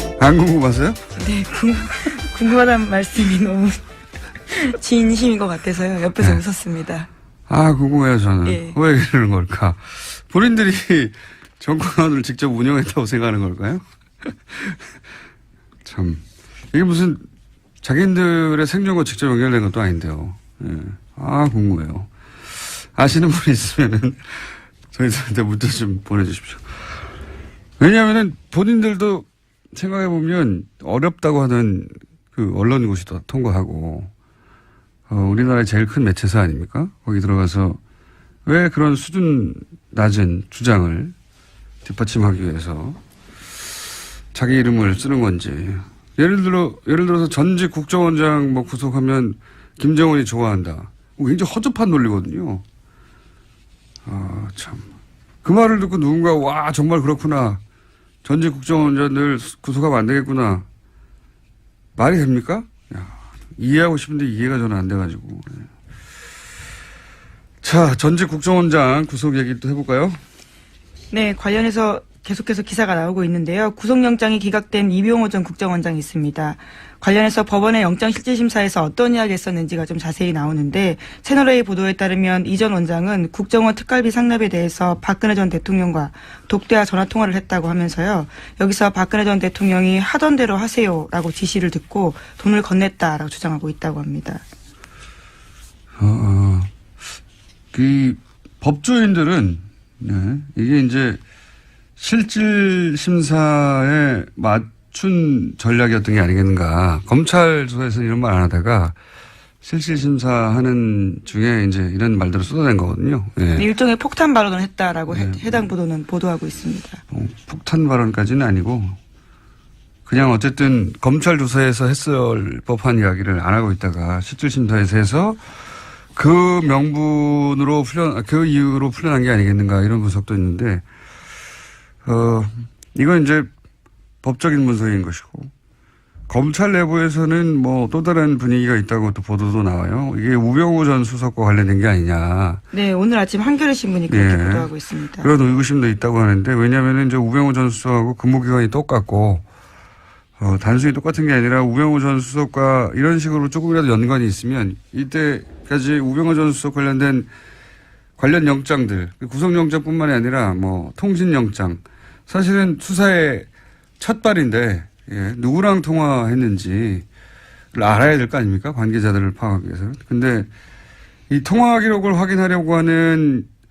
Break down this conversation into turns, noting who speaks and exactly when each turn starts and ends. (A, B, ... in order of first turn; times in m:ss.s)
0:00.2-0:01.0 A
0:01.2-0:03.8 B
0:04.5-0:07.1 B
0:07.5-0:14.8 A
0:08.5-0:08.8 B
0:15.8-0:16.2 A
0:16.7-0:17.2 A
0:17.8-0:27.0 A
0:27.8-0:34.1 A
0:35.1-0:37.8 A
0:38.5-0:41.1 A
0:41.8-0:43.0 A
0:44.3-0:52.6 A
0:54.1-0:54.8 A
0:55.4-0:57.6 A
0:58.2-1:00.6 A
1:02.0-1:05.7 A
1:07.6-1:10.2 A
1:11.1-1:34.4 B
1:36.0-1:36.7 A
1:37.7-1:41.2 A
1:42.0-1:49.0 A
1:49.6-1:53.7 A
1:53.6-1:57.0 B
1:55.1-1:55.4 A
1:57.1-1:59.0 A
2:00.1-2:05.4 A
2:06.2-2:10.8 A
2:12.0-2:13.5 A
2:14.2-2:15.5 A
2:16.3-2:22.6 A
2:22.7-2:25.3 B
2:24.1-2:24.7 A
2:25.2-2:29.4 A
2:30.4-2:37.3 A
2:38.2-2:43.5 A
2:44.0-2:47.0 A
2:47.7-2:50.5 A
2:51.3-2:53.5 A